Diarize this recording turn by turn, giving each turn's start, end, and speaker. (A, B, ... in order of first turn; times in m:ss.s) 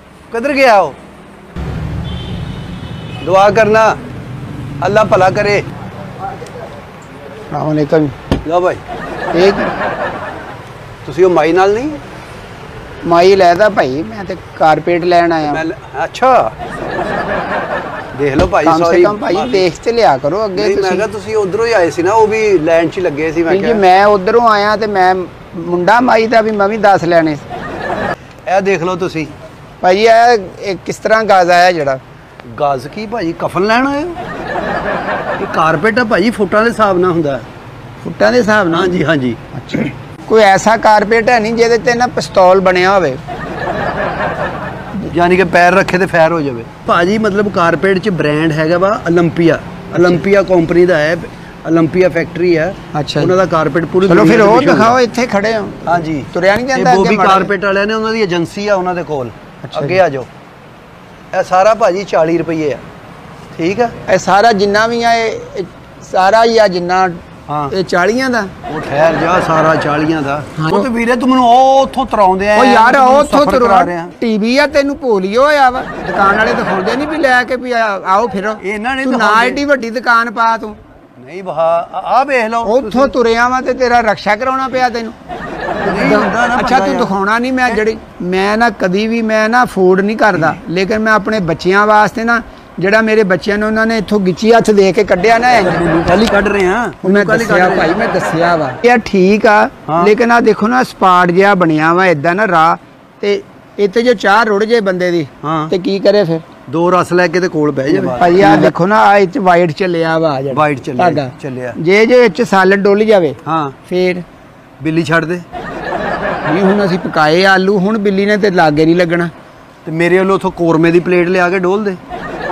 0:00.3-0:01.0 A
0:03.2-0:04.0 A
0:04.8-0:05.6 A
0:07.5-0:08.2 B
0:08.4-0:08.8 A
0:09.3-0:09.7 B
0:11.0-0:12.0 A
0:13.0-0:15.6 B
0:15.5-0:17.3 A
0:18.1-0:19.7 A
0:18.6-0:21.1 B
0:20.6-0:23.8 A
0:23.5-0:27.4 B
0:28.5-0:29.3 A
0:29.8-0:32.0 B
0:32.5-0:34.2 A
0:35.4-0:37.5 A
0:38.0-0:39.0 B
0:38.7-0:39.4 A
0:39.5-0:43.2 B
0:45.1-0:55.0 A
0:52.9-0:53.4 B
0:54.0-0:57.5 B
0:55.9-1:00.3 A
0:59.6-1:00.0 B
1:01.3-1:02.8 A
1:03.5-1:03.9 A
1:04.1-1:08.5 B
1:07.5-1:07.7 A
1:08.7-1:14.1 A
1:10.6-1:10.9 B
1:12.6-1:20.8 B
1:18.6-1:19.6 A
1:21.2-1:23.1 A
1:22.6-1:25.2 B
1:25.8-1:27.1 A
1:25.9-1:35.8 B
1:35.6-1:37.9 A
1:37.0-1:46.4 B
1:39.9-1:40.1 A
1:45.4-1:45.7 A
1:46.7-1:48.7 A
1:47.9-1:54.2 B
1:50.5-1:51.8 A
1:53.4-1:53.8 A
1:54.8-1:55.4 A
1:56.5-1:59.3 B
1:59.8-2:02.0 A